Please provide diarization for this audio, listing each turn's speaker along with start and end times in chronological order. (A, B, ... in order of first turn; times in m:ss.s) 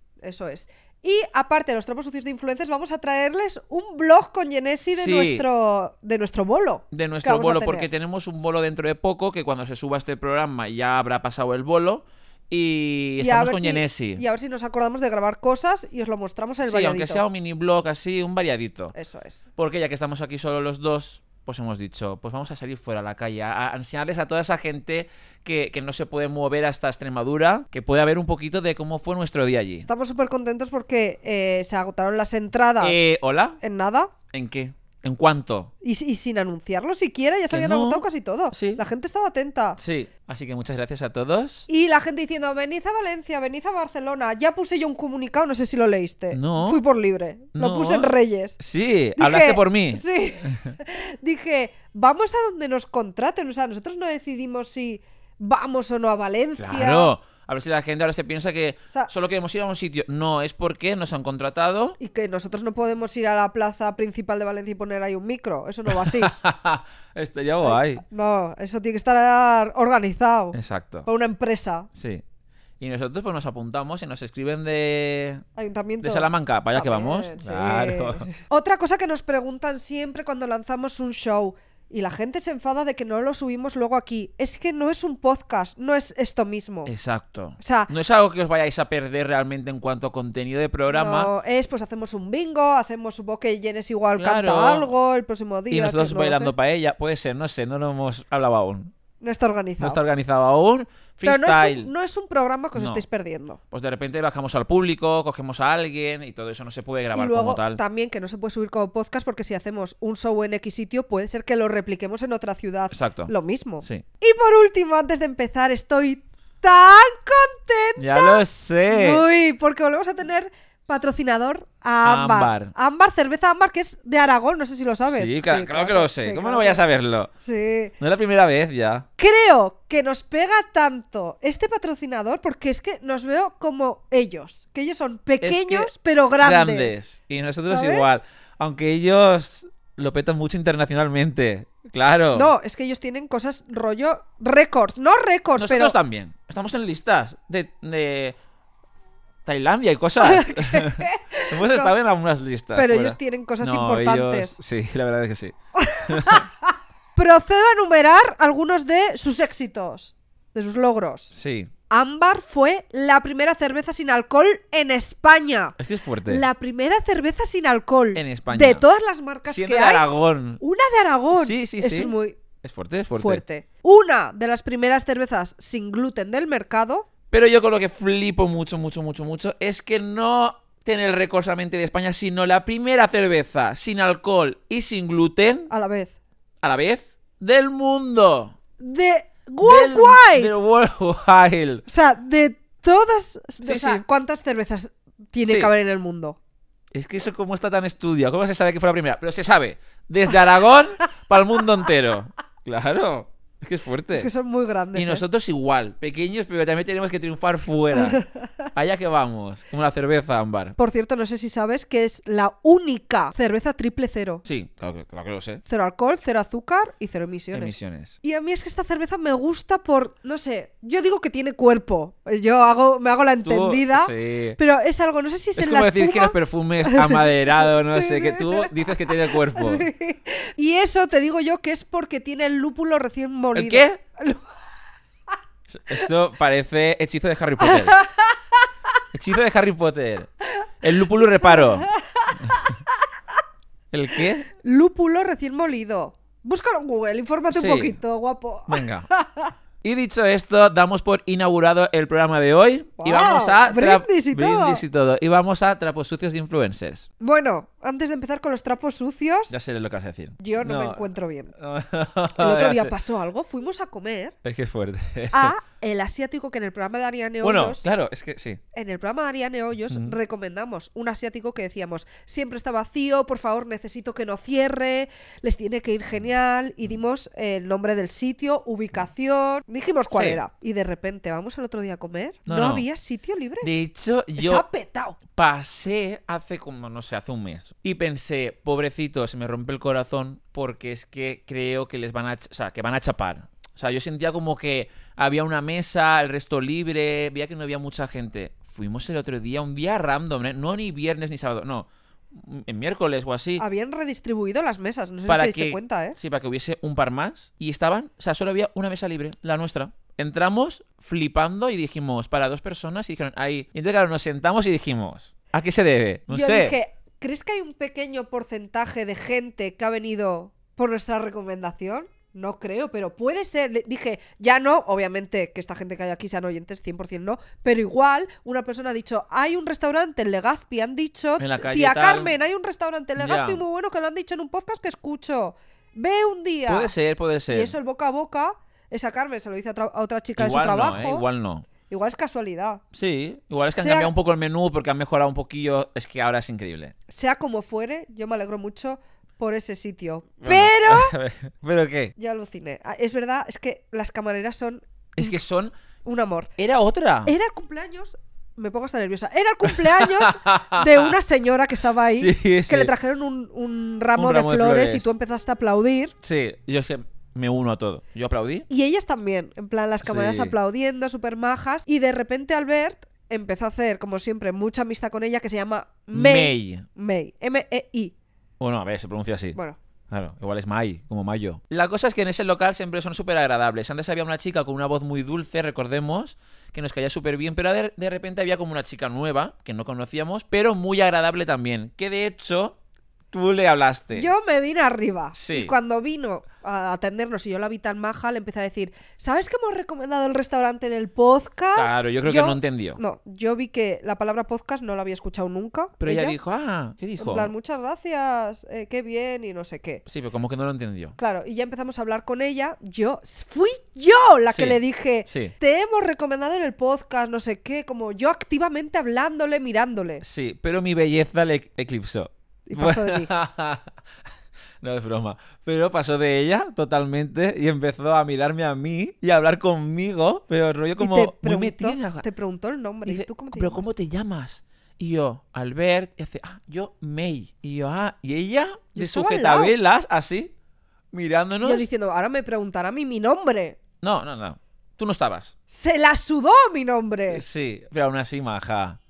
0:00.2-0:07.9 A
0:04.9-0:05.4 B
0:06.9-0:14.2 B
0:13.2-0:17.2 A
0:16.6-0:18.9 B
0:18.9-0:19.5 A
0:19.6-0:29.9 B
0:29.8-0:33.0 A
0:32.8-0:33.6 B
0:33.6-0:34.1 A
0:34.3-0:35.7 B
0:35.8-0:39.8 A
0:37.5-0:38.8 B
0:39.8-0:41.7 B
0:41.7-0:48.6 A
0:46.3-0:46.8 B
0:47.6-0:50.8 B
0:49.2-0:57.1 A
0:56.6-1:02.0 B
1:02.0-1:06.4 A
1:05.9-1:08.0 B
1:07.6-1:11.9 A
1:10.5-1:11.1 B
1:12.0-1:12.2 B
1:12.8-1:15.4 B
1:15.6-1:26.9 A
1:16.0-1:18.3 B
1:26.9-1:31.3 B
1:27.6-1:27.9 A
1:30.9-1:36.5 A
1:34.2-1:34.9 B
1:35.7-1:38.9 B
1:39.2-1:40.0 A
1:39.8-1:41.9 B
1:41.2-1:43.6 A
1:42.8-1:43.0 B
1:43.7-1:47.8 B
1:47.2-2:06.8 A
1:52.9-1:54.0 B
1:58.0-1:59.2 B
2:02.0-2:02.7 B
2:05.1-2:07.3 B
2:07.4-2:07.9 A
2:08.0-2:09.1 B
2:09.2-2:17.0 A
2:15.4-2:22.5 B
2:17.6-2:18.1 A
2:22.4-2:26.0 A
2:25.6-2:28.4 B
2:29.4-2:36.5 B
2:30.2-2:31.9 A
2:32.7-2:34.6 A
2:35.8-2:36.5 A
2:37.2-2:41.3 A
2:41.3-2:41.7 B
2:41.9-2:50.1 A
2:45.8-2:46.5 B
2:48.2-2:48.8 B
2:49.5-2:50.6 B
2:50.6-2:52.4 A
2:51.3-2:53.4 B
2:53.2-2:57.1 A
2:57.3-3:05.7 B
3:05.7-3:06.2 A
3:06.6-3:08.6 B
3:08.8-3:10.5 A
3:09.6-3:11.9 B
3:11.9-3:16.4 A
3:13.6-3:14.0 B
3:15.4-3:15.7 B
3:16.9-3:24.3 B
3:24.1-3:25.2 A
3:24.9-3:28.2 B
3:28.7-3:30.8 B
3:30.8-3:34.4 A
3:34.4-3:35.6 B
3:35.7-3:37.7 A
3:37.5-3:38.2 B
3:38.2-3:54.4 A
3:43.4-3:44.6 B
3:45.6-3:49.9 B
3:53.5-3:54.0 B
3:55.7-3:58.0 B
3:57.6-3:58.4 A
3:59.1-4:01.9 B
4:01.9-4:02.7 A
4:02.4-4:02.7 B
4:03.9-4:04.5 B
4:04.5-4:09.5 A
4:07.5-4:08.0 B
4:08.7-4:09.1 B
4:09.8-4:17.1 B
4:13.0-4:14.8 A
4:17.2-4:19.6 A
4:19.5-4:21.0 B
4:20.4-4:21.6 A
4:21.6-4:22.9 B
4:22.4-4:24.4 A
4:24.4-4:25.6 B
4:25.3-4:27.8 A
4:27.4-4:28.6 B
4:28.7-4:43.7 A
4:29.9-4:30.2 B
4:40.1-4:40.4 B
4:42.5-4:42.9 B
4:43.6-4:44.6 B
4:44.4-4:45.2 A
4:45.3-5:03.6 B
5:03.6-5:06.2 A
5:05.3-5:16.8 B
5:16.3-5:36.9 A
5:31.4-5:32.4 B
5:33.2-5:33.6 B
5:36.7-5:37.8 B
5:37.5-5:41.2 A
5:40.4-5:41.7 B
5:41.9-5:42.8 A
5:42.9-5:46.9 B
5:43.6-5:44.1 A
5:47.1-5:51.2 A
5:50.4-5:52.1 B
5:52.2-5:55.4 A
5:55.2-5:55.7 B
5:56.0-5:56.5 A
5:56.6-5:57.3 B
5:57.2-6:06.1 A
5:59.6-6:01.1 B
6:02.1-6:02.9 B
6:04.2-6:05.1 B
6:06.2-6:08.7 B
6:08.7-6:18.1 A
6:10.0-6:10.5 B
6:16.1-6:16.9 B
6:18.6-6:19.6 B
6:20.1-6:32.8 B
6:33.3-6:34.3 B
6:34.2-6:46.4 A
6:35.3-6:35.7 B
6:41.7-6:43.0 B
6:46.0-6:47.5 B
6:47.2-6:50.0 A
6:50.1-6:51.2 B
6:51.2-7:00.2 A
6:54.5-6:55.5 B
7:00.2-7:03.9 B
7:02.7-7:03.3 A
7:04.8-7:12.2 B
7:11.0-7:13.9 A
7:13.0-7:20.5 B
7:19.0-7:19.7 A
7:21.1-7:21.9 B
7:21.6-7:23.8 A
7:24.0-7:25.5 B
7:25.7-7:27.4 A
7:27.3-7:29.0 B